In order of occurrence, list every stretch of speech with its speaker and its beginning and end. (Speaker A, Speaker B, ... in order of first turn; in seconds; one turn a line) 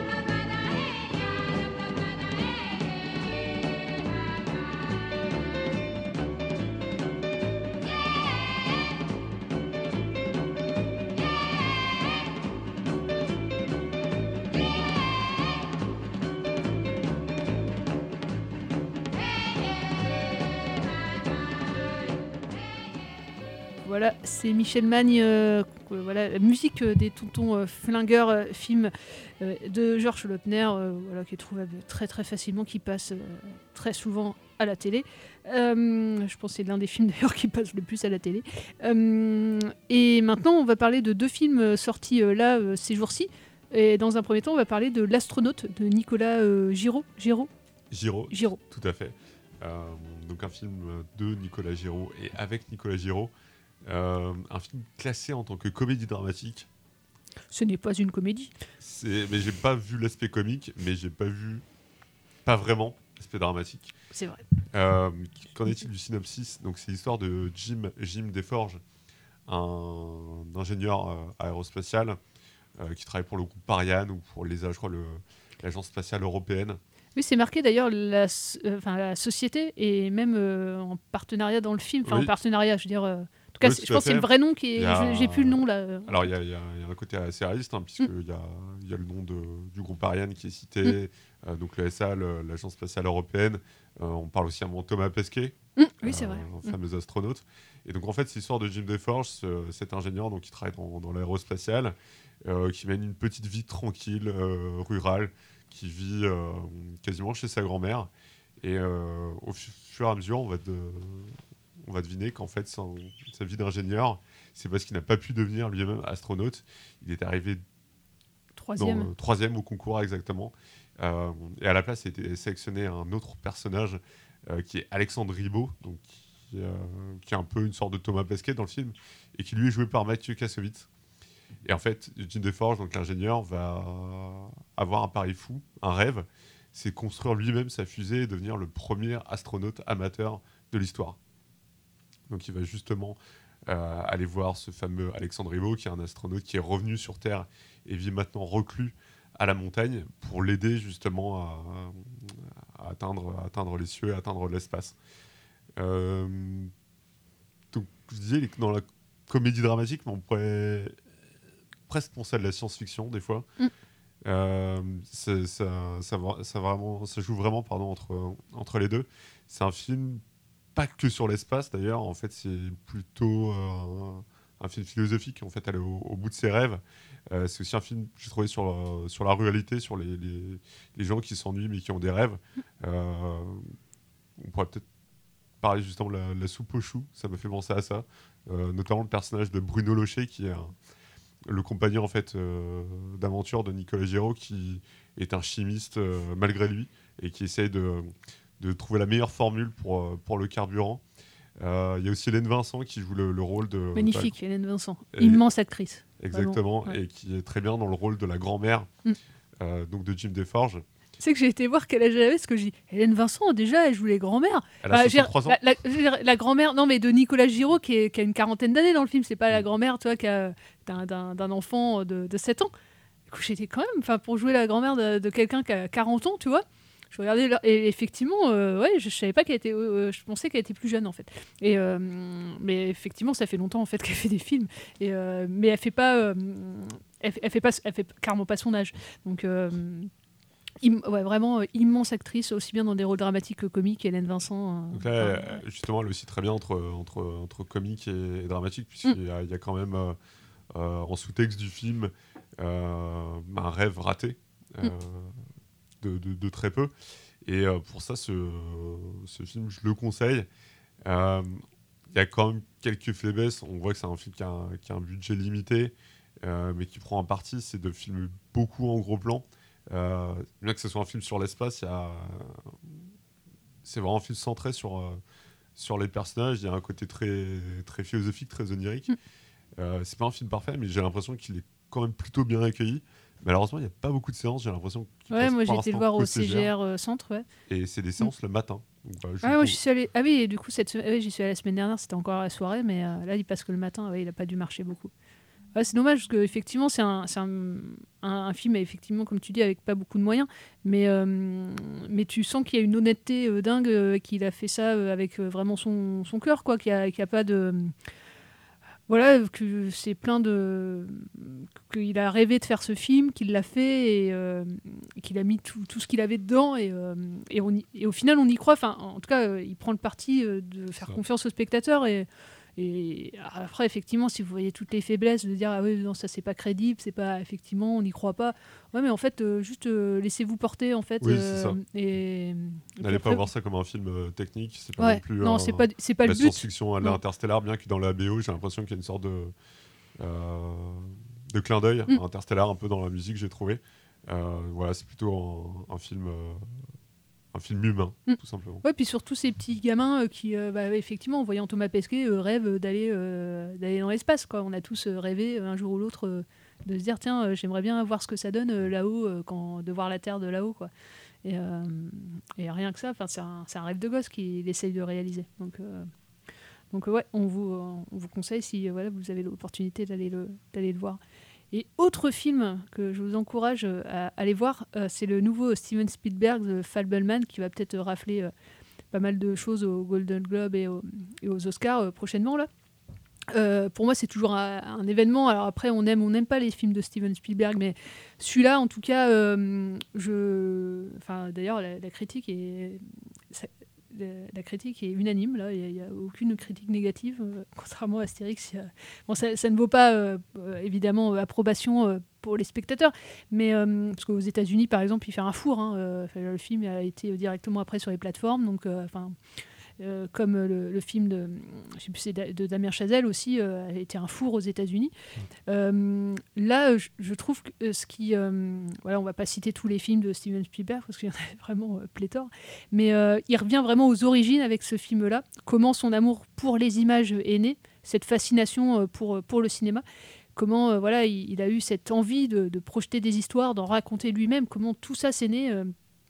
Speaker A: 23.8-47.5
Speaker B: 47.9-53.3
Speaker A: 48.3-48.6
Speaker B: 53.9-56.7
Speaker A: 57.5-58.5
Speaker B: 58.8-61.6
Speaker B: 62.4-63.9
Speaker A: 64.1-64.4
Speaker B: 64.7-68.8
Speaker B: 69.5-72.2
Speaker B: 72.8-76.8
Speaker A: 77.2-86.3
Speaker B: 82.0-82.3
Speaker B: 83.6-108.1
Speaker A: 95.8-96.8
Speaker B: 108.6-117.6
Speaker A: 118.6-119.1
Speaker B: 118.8-130.9
Speaker B: 131.6-141.2
Speaker B: 142.3-154.9
Speaker B: 155.8-156.7
Speaker B: 157.7-160.9
Speaker B: 161.9-163.5
Speaker B: 164.2-170.2
Speaker B: 170.7-183.8
Speaker B: 184.4-184.8
Speaker B: 185.6-190.7
Speaker B: 191.4-201.0
Speaker B: 201.6-204.3
Speaker A: 203.9-207.0
Speaker B: 205.1-205.4
Speaker B: 206.2-208.9
Speaker B: 209.6-210.8
Speaker A: 211.2-222.7
Speaker B: 214.8-215.6
Speaker A: 223.3-240.1
Speaker A: 240.8-245.6
Speaker B: 244.9-250.2
Speaker B: 250.7-255.4
Speaker B: 256.0-256.9
Speaker B: 257.4-260.5
Speaker B: 261.0-272.9
Speaker B: 273.8-275.2
Speaker B: 275.8-279.1
Speaker B: 279.8-286.7
Speaker A: 285.3-287.4
Speaker B: 287.7-289.8
Speaker A: 289.4-295.1
Speaker A: 295.7-307.9
Speaker A: 309.1-333.4
Speaker B: 331.2-331.8
Speaker B: 333.0-339.5
Speaker A: 335.0-337.2
Speaker B: 340.2-346.8
Speaker B: 347.5-348.8
Speaker A: 348.3-360.9
Speaker A: 361.4-366.1
Speaker A: 366.9-371.2
Speaker A: 371.7-378.5
Speaker A: 379.1-382.7
Speaker A: 383.5-409.4
Speaker A: 410.0-415.1
Speaker A: 415.7-430.0
Speaker A: 430.6-435.9